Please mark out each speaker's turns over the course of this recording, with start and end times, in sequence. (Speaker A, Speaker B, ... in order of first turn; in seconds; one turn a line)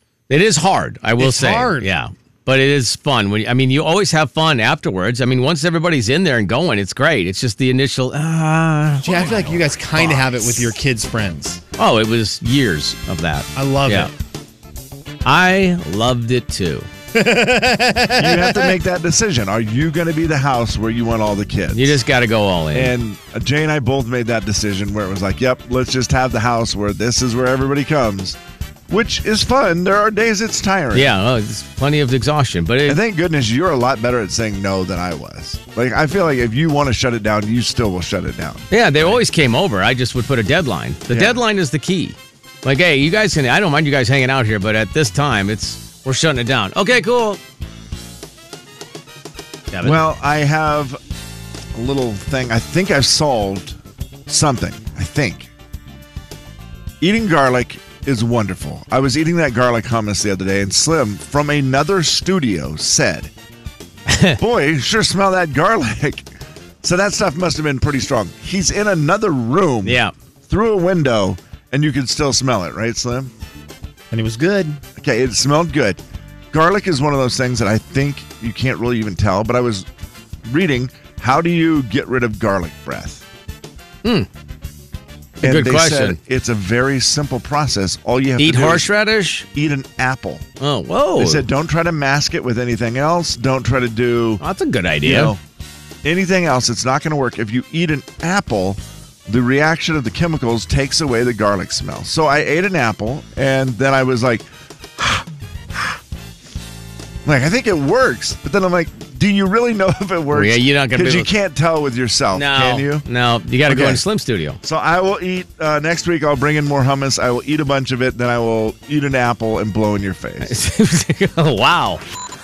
Speaker A: 0.3-9.6
Speaker B: 1.2-1.9
Speaker B: 9.0-11.6
Speaker A: 11.8-14.1
Speaker B: 13.6-14.1
Speaker A: 15.2-16.9
Speaker B: 17.1-18.8
Speaker C: 18.2-22.0
Speaker A: 21.7-22.9
Speaker C: 22.7-28.4
Speaker C: 28.9-31.1
Speaker A: 30.9-33.0
Speaker C: 32.9-39.2
Speaker A: 38.7-47.4
Speaker C: 41.1-41.4
Speaker A: 49.7-50.0
Speaker C: 49.8-51.0
Speaker C: 51.8-55.5
Speaker C: 57.0-63.3
Speaker A: 64.1-64.4
Speaker C: 64.4-66.3
Speaker C: 66.8-73.3
Speaker A: 69.8-70.1
Speaker B: 74.1-74.8
Speaker C: 75.0-76.0
Speaker C: 76.5-79.9
Speaker C: 80.5-83.2
Speaker A: 85.4-86.2
Speaker C: 85.4-88.9
Speaker A: 88.4-89.5
Speaker C: 89.5-90.5
Speaker A: 90.6-91.5
Speaker C: 91.2-94.4
Speaker A: 94.4-95.3
Speaker C: 95.0-95.4
Speaker C: 96.0-104.5
Speaker C: 105.0-105.2
Speaker C: 107.2-113.1
Speaker A: 110.3-111.3
Speaker A: 112.3-114.6
Speaker C: 113.7-114.0
Speaker C: 114.6-120.6
Speaker A: 120.4-122.0